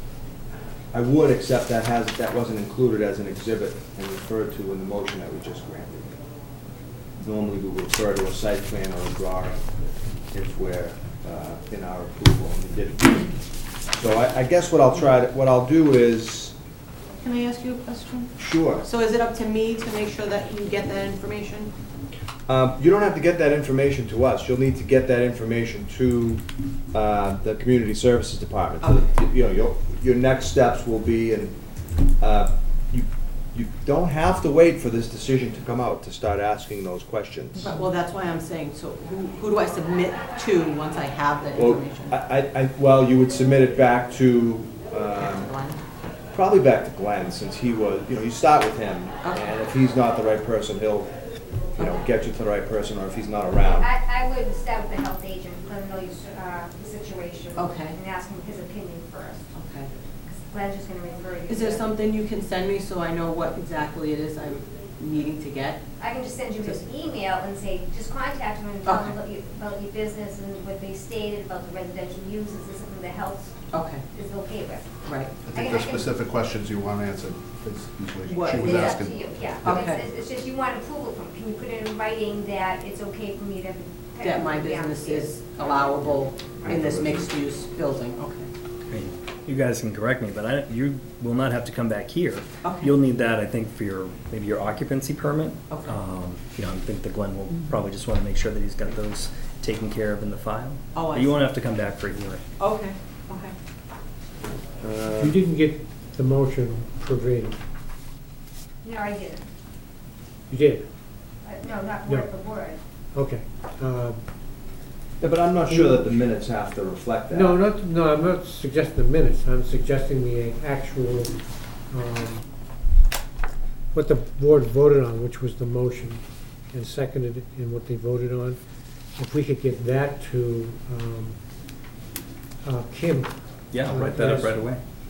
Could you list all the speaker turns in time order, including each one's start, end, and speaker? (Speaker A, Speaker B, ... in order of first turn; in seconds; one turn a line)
Speaker A: 0.9-6.2
Speaker A: 7.2-9.6
Speaker A: 10.3-13.3
Speaker A: 13.9-16.5
Speaker B: 17.2-21.7
Speaker A: 18.4-18.9
Speaker A: 22.5-31.6
Speaker A: 32.2-37.7
Speaker B: 37.6-42.1
Speaker A: 41.5-45.5
Speaker B: 45.2-45.8
Speaker A: 46.3-51.1
Speaker A: 51.8-53.9
Speaker C: 53.6-59.5
Speaker B: 57.5-58.0
Speaker B: 59.5-59.9
Speaker C: 60.2-61.9
Speaker B: 61.5-65.8
Speaker C: 66.0-73.5
Speaker B: 68.8-69.2
Speaker B: 73.7-74.0
Speaker C: 74.1-76.1
Speaker B: 75.0-75.3
Speaker D: 75.4-79.9
Speaker B: 78.3-78.8
Speaker C: 78.4-85.8
Speaker B: 79.6-80.0
Speaker B: 84.2-88.5
Speaker A: 86.6-87.2
Speaker E: 88.9-102.4
Speaker B: 92.6-93.0
Speaker B: 95.7-96.0
Speaker B: 100.9-101.4
Speaker B: 102.6-103.5
Speaker A: 104.8-105.4
Speaker F: 105.2-107.6
Speaker C: 108.8-109.4
Speaker F: 110.5-110.8
Speaker C: 111.4-112.8
Speaker F: 113.1-114.2
Speaker A: 115.2-117.6
Speaker F: 115.7-116.0
Speaker F: 117.3-121.3
Speaker F: 121.9-122.5
Speaker F: 123.9-128.6
Speaker F: 129.2-131.4
Speaker F: 132.6-133.3
Speaker E: 133.7-134.8
Speaker F: 133.8-134.6